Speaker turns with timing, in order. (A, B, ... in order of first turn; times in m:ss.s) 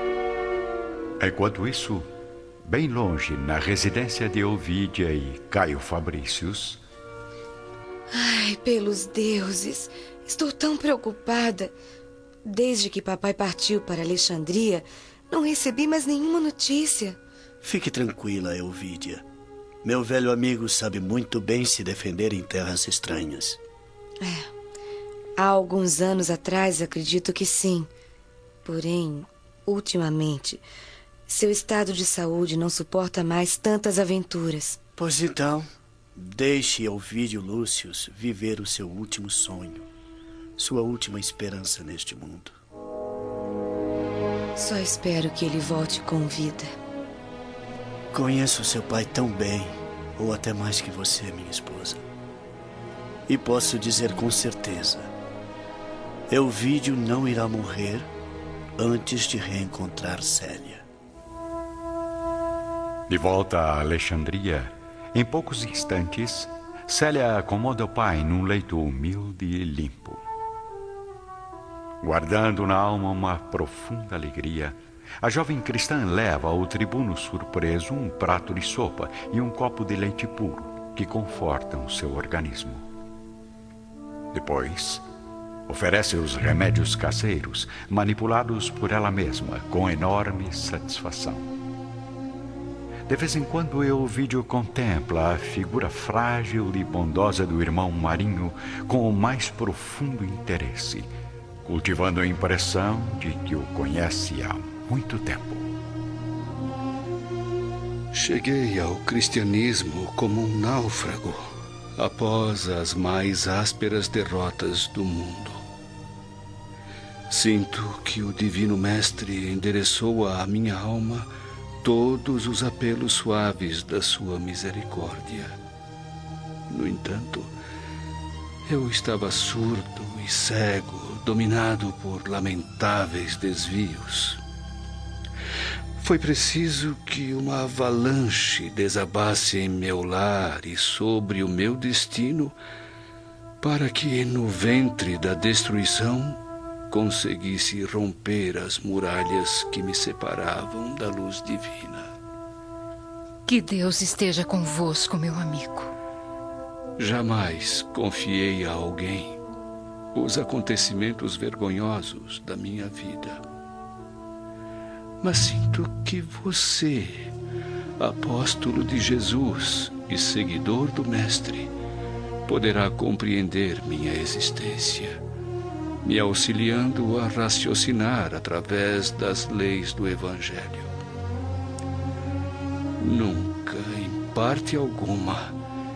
0:01.2-0:02.1 A
0:02.6-0:06.8 A
0:08.1-0:11.7 B
0:12.4-0:17.2 B
0:17.6-0:19.2 C
0:19.8-0:23.6 C
0:24.2-0:24.5 B
0:25.4-0:27.9 B
0:28.6-0:30.6 B
0:31.3-0:34.8 B
0:35.0-0:39.9 C
0:40.6-0:42.6 C
0:44.6-0:46.7 B
0:48.1-0:52.0 C
0:53.3-0:55.1 C
0:56.3-0:58.1 C
0:58.8-1:00.8 C
1:03.1-1:10.2 A
1:12.0-1:22.8 A
1:24.3-1:25.0 A
1:25.7-1:31.5 A
1:33.1-1:41.1 A
1:41.6-1:45.7 A
1:48.1-1:55.6 D
1:57.3-2:01.3 D
2:01.8-2:05.6 D
2:06.7-2:07.5 D
2:08.6-2:14.4 D
2:16.0-2:22.6 D
2:23.6-2:32.1 D
2:33.4-2:35.9 E
2:37.0-2:39.4 D
2:40.1-2:43.4 D
2:45.2-2:47.3 D
2:48.0-2:51.7 D
2:52.5-2:55.2 D
2:56.0-3:00.9 D
3:03.0-3:05.6 D